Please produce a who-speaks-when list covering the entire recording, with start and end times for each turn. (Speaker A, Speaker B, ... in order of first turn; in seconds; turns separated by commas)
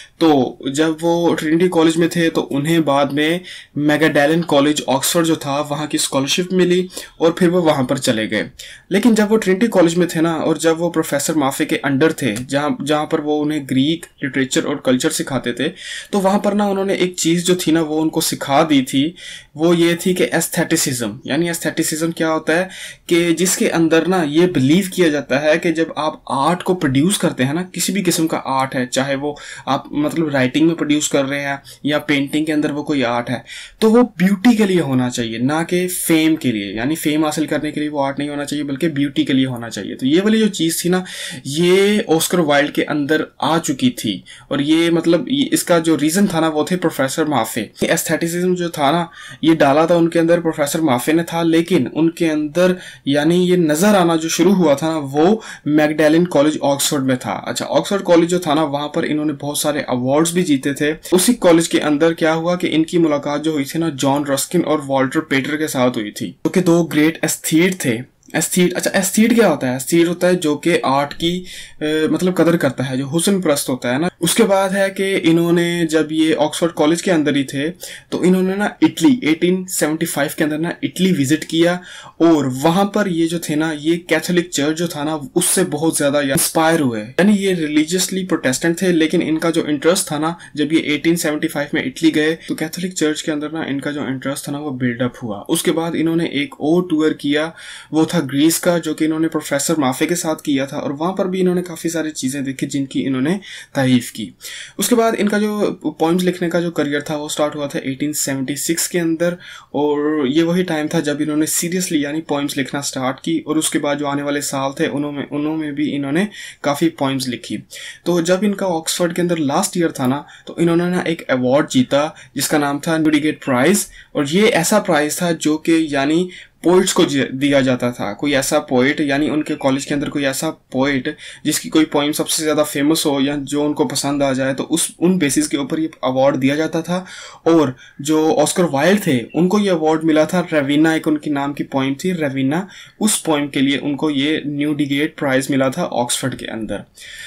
Speaker A: 0.2-146.8